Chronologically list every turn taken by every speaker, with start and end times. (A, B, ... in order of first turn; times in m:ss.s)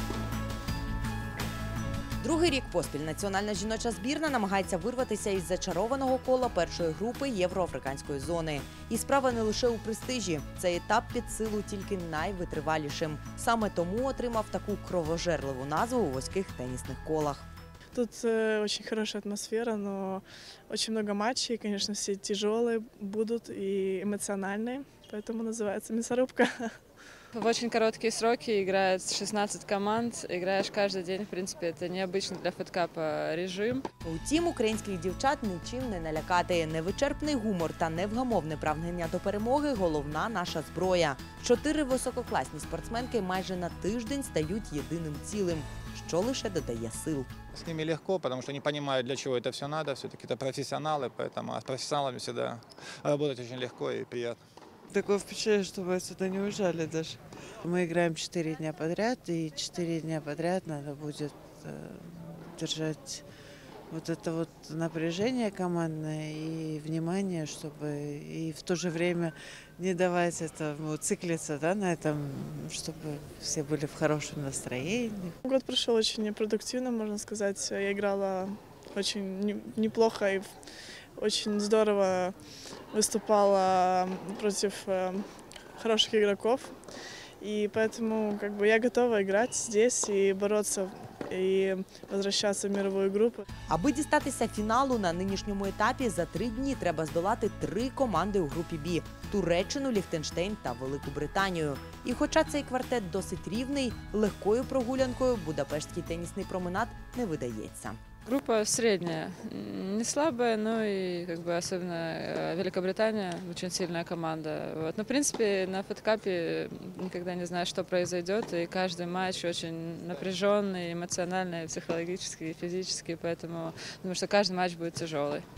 0:02.2-0:17.5 A
0:17.9-0:26.7 B
0:27.3-0:33.8 C
0:34.0-0:47.3 A
0:47.5-0:54.4 D
0:54.9-1:03.2 E
1:03.9-1:15.4 E
1:15.4-1:20.5 B
1:21.2-1:22.3 B
1:22.9-1:25.2 B
1:25.8-1:26.8 B
1:27.4-1:33.4 B
1:33.7-1:48.0 A
1:48.2-2:05.4 C